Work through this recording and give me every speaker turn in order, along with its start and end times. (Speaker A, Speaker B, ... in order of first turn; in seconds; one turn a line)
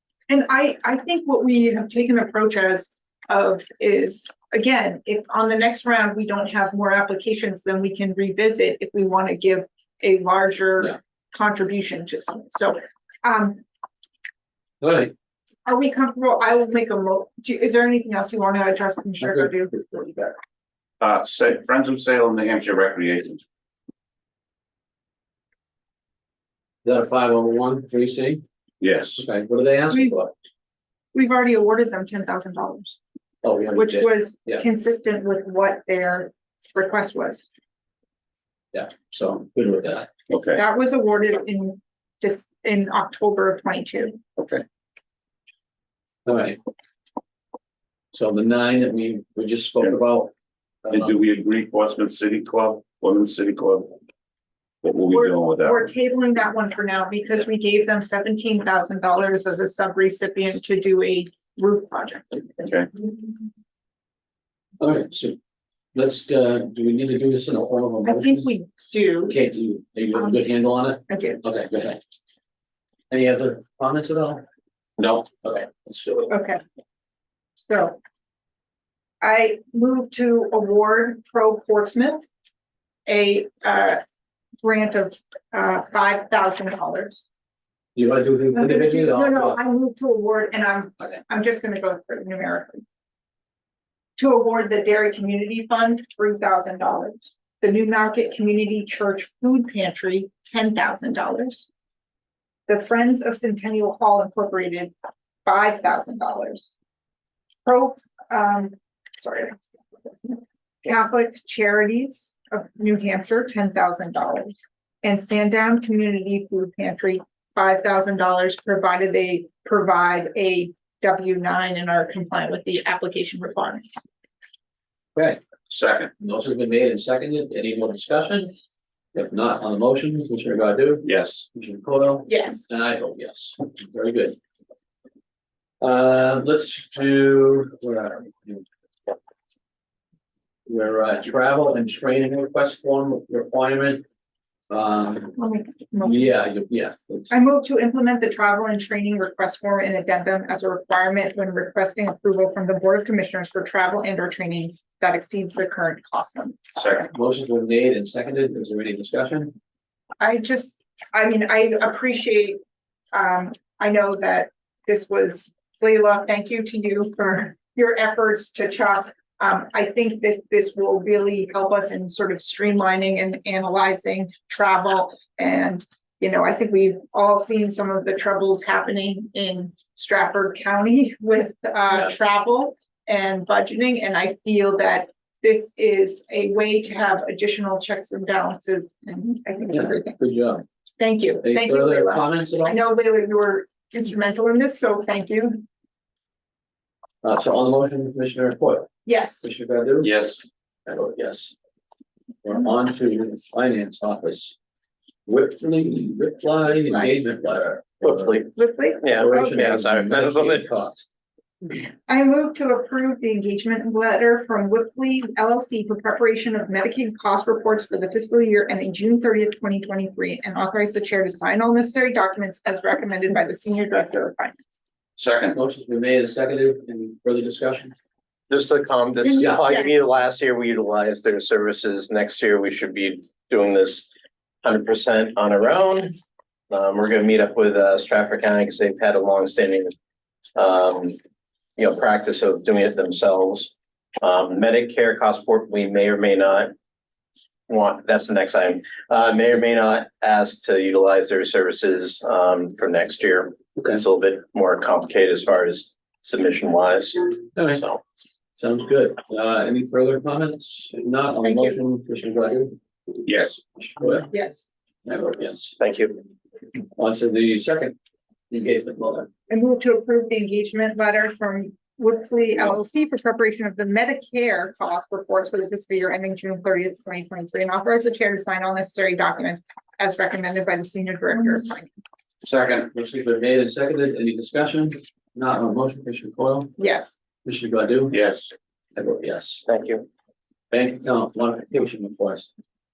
Speaker A: 0.3-13.6
Speaker B: 14.8-15.1
Speaker A: 15.7-19.9
Speaker B: 19.2-20.3
Speaker C: 21.0-23.4
Speaker B: 26.8-28.4
Speaker C: 28.8-29.2
Speaker B: 29.2-30.3
Speaker A: 31.1-33.0
Speaker B: 33.4-34.6
Speaker A: 33.7-37.5
Speaker B: 38.7-40.1
Speaker C: 40.3-40.6
Speaker A: 40.5-44.2
Speaker B: 46.2-46.6
Speaker B: 48.1-50.3
Speaker B: 50.8-51.2
Speaker C: 50.9-54.0
Speaker C: 54.8-55.8
Speaker A: 55.1-62.4
Speaker C: 62.6-62.9
Speaker B: 64.8-65.4
Speaker B: 65.9-68.6
Speaker A: 68.0-69.4
Speaker B: 69.3-72.0
Speaker A: 70.1-70.4
Speaker A: 71.1-71.4
Speaker B: 73.1-74.4
Speaker B: 75.2-76.3
Speaker A: 76.3-76.6
Speaker A: 77.6-78.0
Speaker A: 79.2-82.3
Speaker A: 83.1-84.0
Speaker A: 84.6-87.2
Speaker B: 87.9-89.6
Speaker A: 88.5-92.8
Speaker A: 94.2-101.7
Speaker A: 102.7-104.9
Speaker A: 105.4-106.7
Speaker A: 107.6-124.0
Speaker C: 125.7-126.1
Speaker B: 126.2-128.5
Speaker B: 129.1-134.4
Speaker C: 131.0-131.5
Speaker A: 132.3-132.6
Speaker B: 135.8-138.7
Speaker B: 140.7-144.0
Speaker B: 144.7-145.4
Speaker A: 145.4-146.3
Speaker B: 146.0-147.3
Speaker A: 147.3-156.8
Speaker C: 156.8-157.1
Speaker B: 157.1-159.5
Speaker A: 160.2-162.6
Speaker A: 163.1-190.2
Speaker B: 189.7-190.6
Speaker A: 191.0-195.6
Speaker B: 191.4-192.8
Speaker B: 197.2-198.9
Speaker A: 199.1-199.4
Speaker B: 199.4-200.1
Speaker C: 200.0-200.4
Speaker B: 200.8-201.5
Speaker B: 202.4-204.6
Speaker B: 205.2-208.3
Speaker D: 208.0-208.5
Speaker A: 208.6-209.6
Speaker D: 209.0-210.7
Speaker B: 209.1-211.1
Speaker A: 212.1-224.6
Speaker C: 225.2-225.6
Speaker B: 225.5-227.9
Speaker D: 228.5-234.1
Speaker A: 229.2-229.9
Speaker D: 234.6-236.2
Speaker D: 236.7-239.9
Speaker D: 240.6-241.2
Speaker D: 241.8-246.7
Speaker D: 247.7-258.0
Speaker B: 253.8-254.0
Speaker B: 257.5-257.8
Speaker B: 258.6-262.7
Speaker A: 261.4-261.8
Speaker C: 263.3-263.6
Speaker B: 263.8-264.3
Speaker A: 264.3-264.6
Speaker B: 265.0-265.8
Speaker D: 265.8-266.2
Speaker B: 266.9-267.9
Speaker B: 268.5-269.3
Speaker A: 269.5-281.9
Speaker C: 282.4-282.9
Speaker B: 282.9-286.7
Speaker A: 286.8-287.1
Speaker B: 287.4-288.2
Speaker C: 288.1-288.5
Speaker B: 288.9-289.6
Speaker D: 289.6-290.1
Speaker B: 290.7-292.5